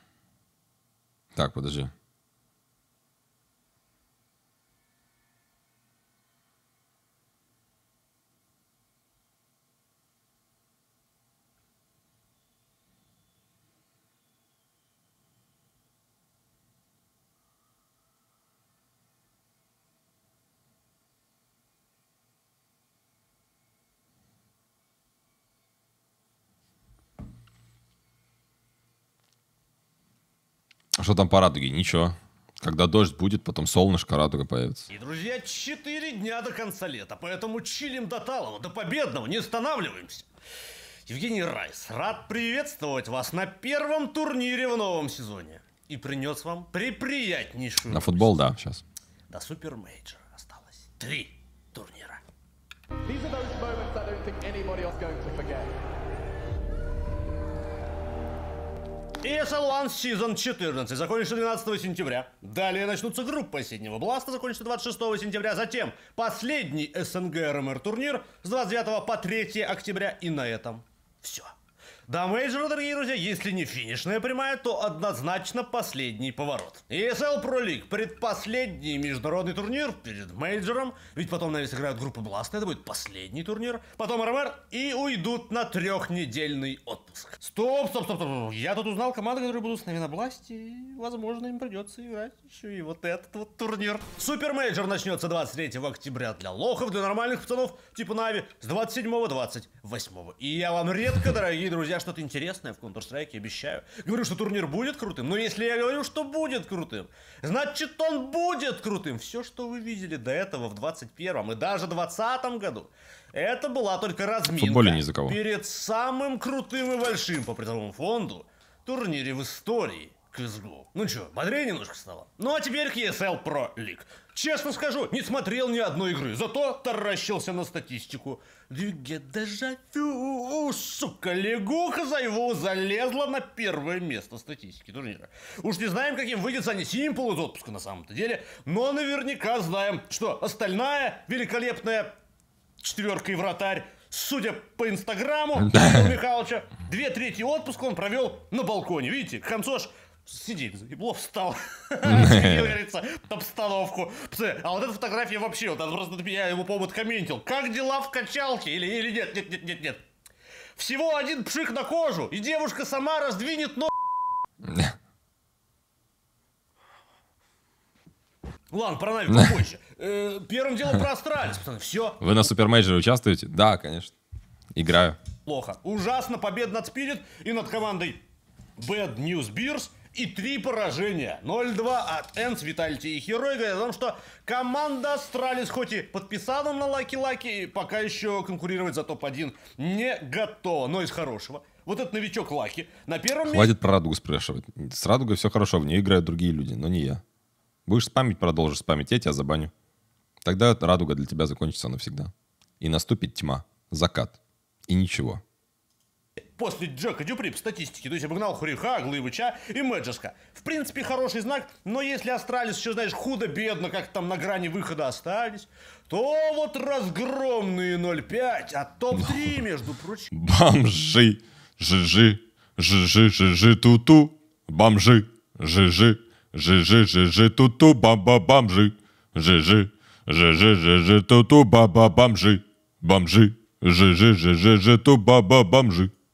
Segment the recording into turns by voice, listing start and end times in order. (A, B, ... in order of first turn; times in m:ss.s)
0:01.3-0:01.9 A
0:31.0-0:34.9 A
0:34.9-0:40.3 B
0:41.1-0:48.4 B
0:47.9-0:48.8 A
0:49.3-0:52.2 B
0:53.1-0:55.7 C
0:59.2-1:11.5 B
1:12.1-2:22.1 B
1:54.6-1:55.4 A
2:22.8-2:40.0 B
2:25.7-2:26.1 A
2:32.0-2:32.7 A
2:40.8-2:43.9 B
2:44.7-2:44.9 A
2:48.7-2:52.2 B
2:52.2-2:54.1 A
2:54.8-2:55.2 A
2:55.4-2:58.2 B
2:58.8-3:13.7 B
3:13.5-3:17.2 A
3:17.8-3:19.7 A
3:20.4-3:24.4 A
3:24.9-3:25.4 A
3:26.5-3:40.3 B
3:40.3-3:56.1 A